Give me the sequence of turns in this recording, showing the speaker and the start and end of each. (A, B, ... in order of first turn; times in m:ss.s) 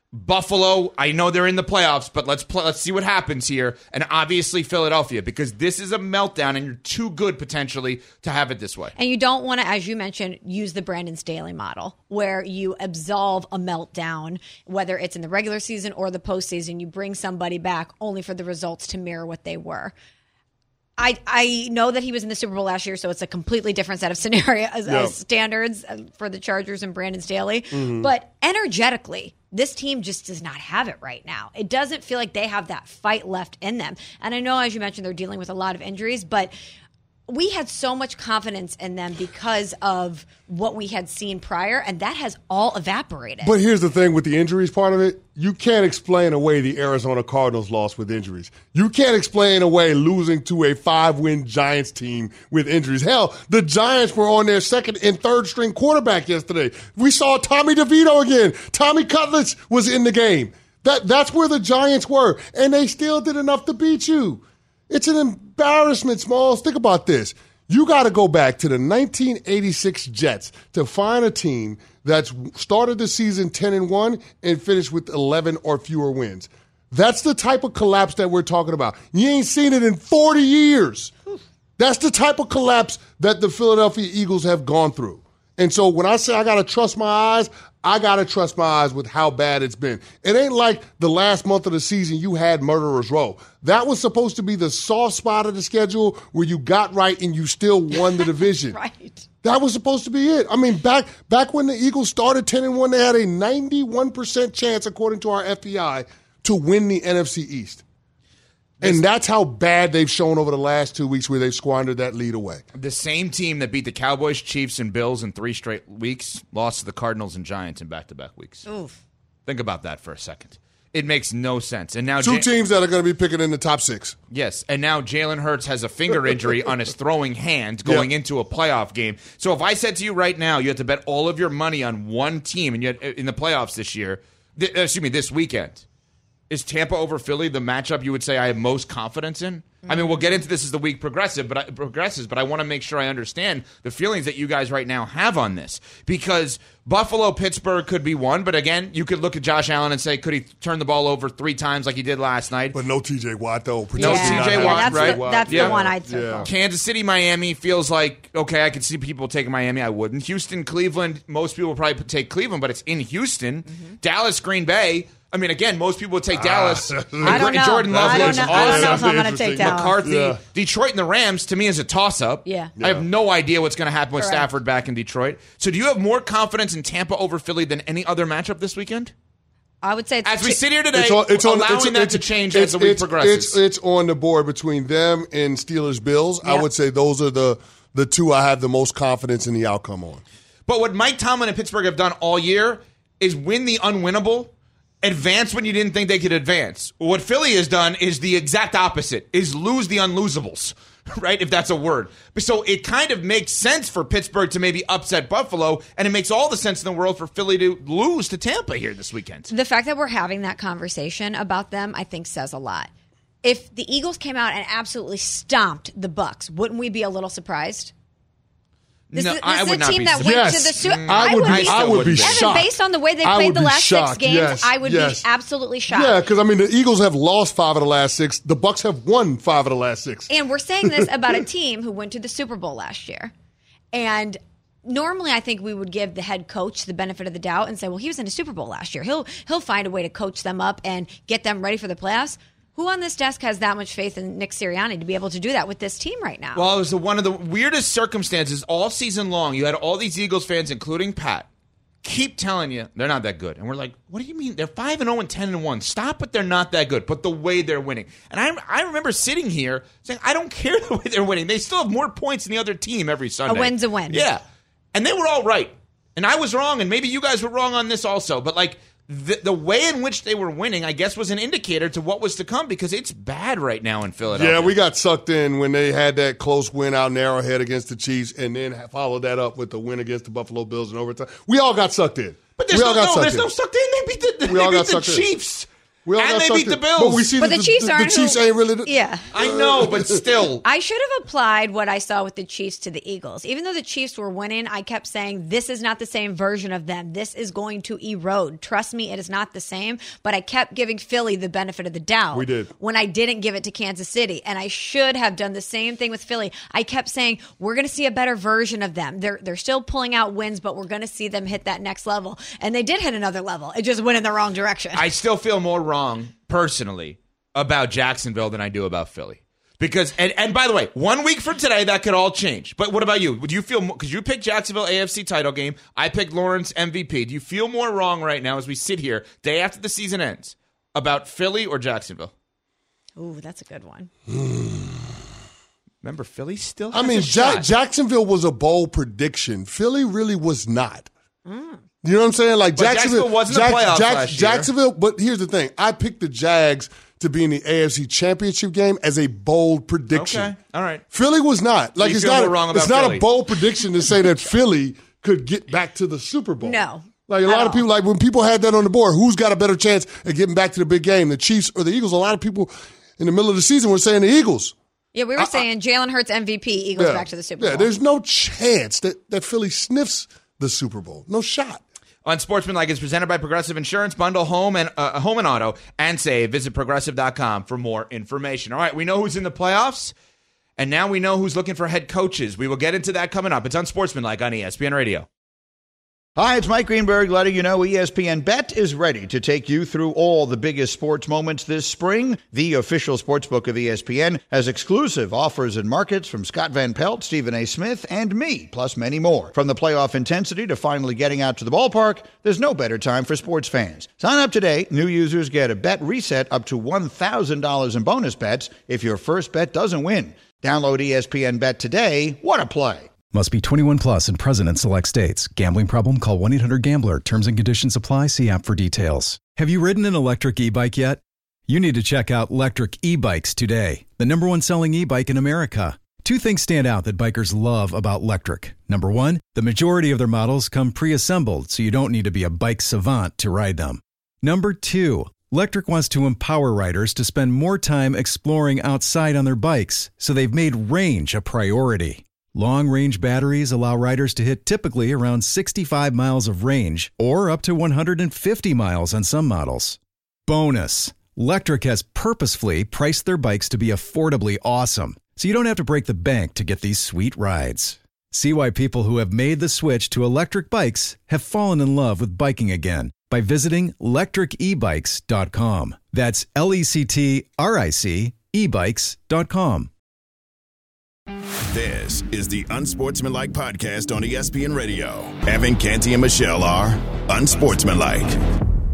0:00.1-0:08.9 A
0:09.0-0:19.9 B
0:21.0-0:36.5 B
0:24.9-0:25.2 C
0:27.7-0:28.1 C
0:37.3-0:43.6 B
0:43.4-1:21.1 C
1:21.8-1:38.8 C
1:38.1-1:39.2 B
1:39.4-1:47.8 C
1:48.8-1:52.6 C
1:52.8-1:58.7 A
1:58.7-1:59.0 B
1:59.5-2:02.5 A
2:02.2-2:04.2 C
2:04.3-2:15.8 A
2:16.5-2:32.8 A
2:32.7-2:36.5 C
2:34.0-2:35.7 A
2:34.0-2:36.5 B
2:36.4-2:59.1 A
2:43.7-2:44.0 B
2:46.3-2:50.4 C
2:47.2-2:49.9 B
2:52.5-2:52.7 B
2:52.8-2:53.1 C
2:54.2-2:54.5 B
2:59.8-3:00.6 B
3:00.2-3:03.6 A
3:00.9-3:10.2 C
3:10.7-3:29.5 A
3:29.5-3:32.9 B
3:33.4-3:37.9 B
3:39.1-3:42.6 A
3:39.1-3:46.2 B
3:40.2-3:45.3 C
3:45.9-3:50.3 C
3:50.3-3:53.3 B
3:53.9-4:06.6 B
4:06.6-4:11.5 A
4:12.0-4:24.4 A
4:23.5-4:24.2 B
4:24.9-4:34.8 A
4:34.3-4:43.5 C
4:42.6-4:47.3 A
4:44.5-4:45.3 C
4:46.0-4:50.3 C
4:47.4-4:49.3 B
4:49.3-4:50.6 A
4:50.6-5:15.0 B
5:02.3-5:02.7 C
5:15.0-5:32.3 A
5:33.2-5:34.1 B
5:34.3-5:35.1 C
5:36.0-5:37.7 A
5:36.9-5:41.1 C
5:41.5-5:41.8 B
5:42.0-5:50.5 C
5:42.8-5:44.7 A
5:50.1-5:51.0 A
5:51.1-6:04.8 C
5:52.0-5:53.2 A
5:56.6-5:57.8 B
6:05.1-6:07.9 B
6:05.4-6:05.6 C
6:07.0-6:11.8 C
6:12.2-6:20.2 A
6:20.8-6:25.3 A
6:26.4-6:53.1 D
6:53.3-7:49.9 E
7:51.7-7:58.4 F